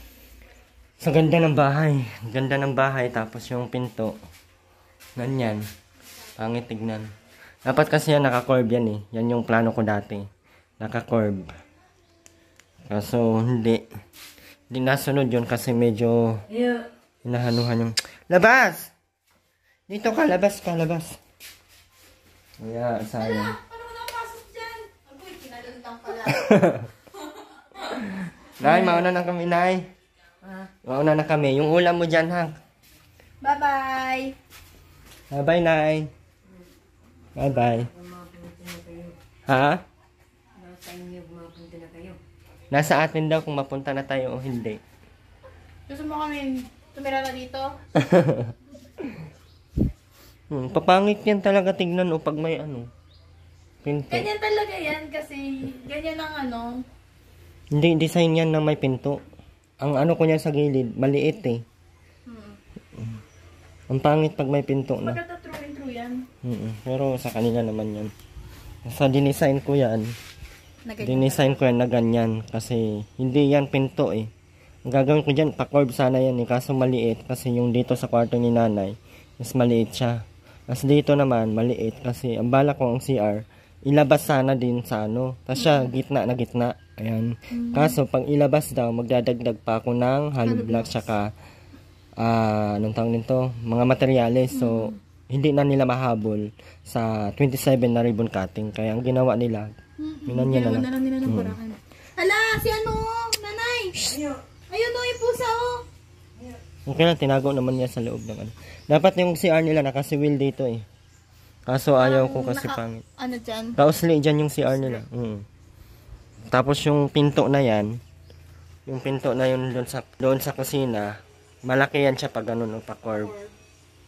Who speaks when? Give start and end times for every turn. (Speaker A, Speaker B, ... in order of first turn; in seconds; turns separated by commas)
Speaker A: 1.0-4.2, Speaker A: 5.2-5.6, Speaker A: 6.4-7.1, Speaker A: 7.6-10.3, Speaker A: 10.8-11.5, Speaker A: 12.9-13.8, Speaker A: 14.7-16.4, Speaker B: 16.5-16.9, Speaker A: 17.2-18.9, Speaker A: 19.9-21.2, Speaker A: 22.6-23.6, Speaker C: 23.2-26.5, Speaker A: 26.2-26.9, Speaker C: 27.3-27.8, Speaker A: 27.9-29.9, Speaker C: 28.6-29.1, Speaker B: 30.4-30.7, Speaker A: 30.8-32.6, Speaker C: 33.4-34.4, Speaker A: 35.3-36.1, Speaker B: 36.4-36.7, Speaker A: 37.4-37.9, Speaker B: 37.4-39.1, Speaker A: 39.5-39.8, Speaker B: 40.5-42.2, Speaker A: 42.7-44.8, Speaker C: 45.9-47.8, Speaker A: 48.0-48.5, Speaker A: 50.5-52.9, Speaker A: 53.8-54.3, Speaker C: 54.1-56.9, Speaker A: 57.7-59.2, Speaker A: 59.8-61.6, Speaker C: 62.3-62.6, Speaker A: 63.9-65.2, Speaker C: 65.0-66.2, Speaker A: 66.4-68.1, Speaker A: 68.8-70.1, Speaker C: 70.8-71.6, Speaker A: 71.0-74.3, Speaker A: 74.9-91.3, Speaker C: 85.5-85.9, Speaker C: 87.5-88.0, Speaker C: 90.4-91.1, Speaker A: 92.2-99.7, Speaker C: 94.5-95.0, Speaker C: 100.0-104.2, Speaker A: 100.2-101.5, Speaker C: 104.7-105.8, Speaker A: 106.8-110.8, Speaker A: 111.7-113.0, Speaker C: 112.0-113.8, Speaker A: 113.8-115.4, Speaker A: 116.5-118.0, Speaker A: 118.8-123.3, Speaker C: 123.1-123.5